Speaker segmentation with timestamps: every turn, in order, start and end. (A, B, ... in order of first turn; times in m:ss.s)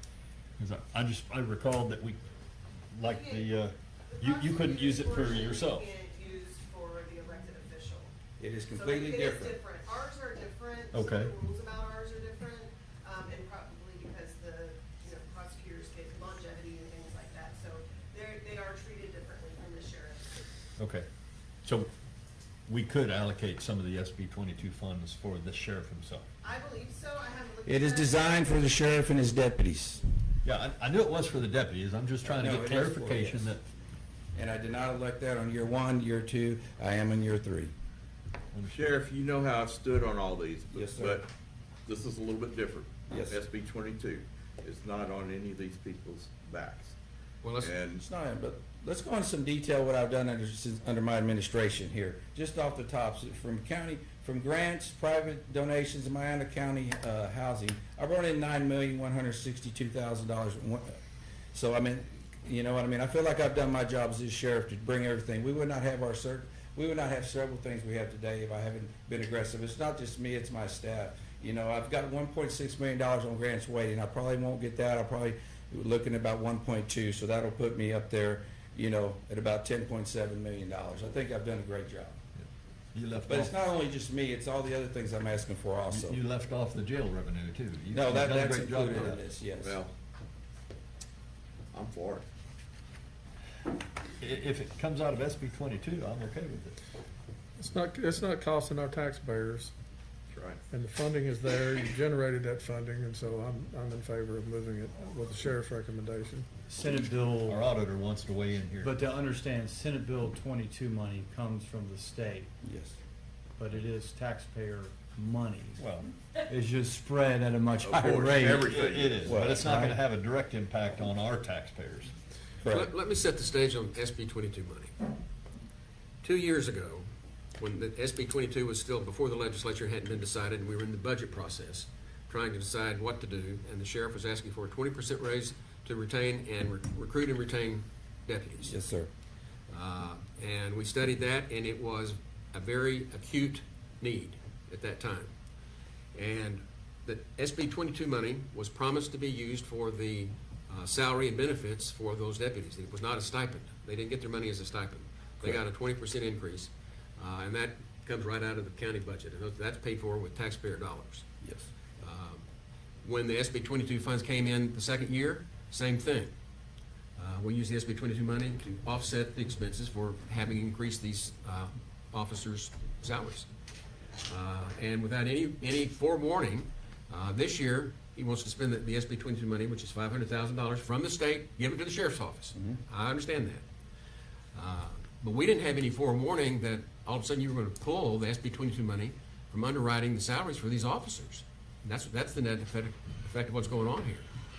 0:00.6-0:02.2 A
0:02.9-0:05.9 A
0:03.0-0:08.1 B
0:08.4-0:09.6 C
0:08.7-0:20.4 B
0:10.9-0:11.3 A
0:20.8-0:21.1 A
0:21.6-0:21.9 A
0:22.6-0:26.2 A
0:26.4-0:28.7 B
0:27.6-0:30.0 C
0:30.4-0:33.6 A
0:32.4-0:33.5 C
0:34.3-0:37.7 C
0:38.5-0:38.9 A
0:38.7-0:41.2 D
0:40.7-0:41.2 C
0:41.8-0:47.0 D
0:43.1-0:43.4 C
0:47.4-0:47.7 E
0:47.6-0:48.0 D
0:48.0-1:01.0 C
1:01.5-1:22.2 C
1:22.4-1:23.5 A
1:23.3-1:26.2 C
1:25.9-1:29.2 A
1:27.9-1:29.8 C
1:29.6-1:29.9 D
1:31.7-1:32.2 D
1:34.2-1:36.8 A
1:37.6-1:39.7 F
1:40.3-1:40.6 D
1:40.7-1:46.5 F
1:46.7-1:47.6 G
1:47.4-1:49.0 A
1:48.8-1:52.5 G
1:52.6-1:53.0 C
1:53.6-1:55.8 G
1:55.8-1:56.1 A
1:56.4-1:58.8 G
1:57.8-1:59.7 D
1:58.6-2:02.1 A
1:59.2-1:59.6 C
1:59.5-2:00.0 G
2:02.6-2:02.9 C
2:02.6-2:04.9 E
2:06.2-2:18.7 E
2:18.6-2:19.1 C
2:19.7-2:25.3 E
2:26.1-2:41.2 E
2:41.4-2:41.7 C
2:42.0-2:42.4 E
2:43.0-2:46.3 E
2:47.2-2:53.5 E
2:54.3-3:03.6 E
3:04.5-3:14.3 E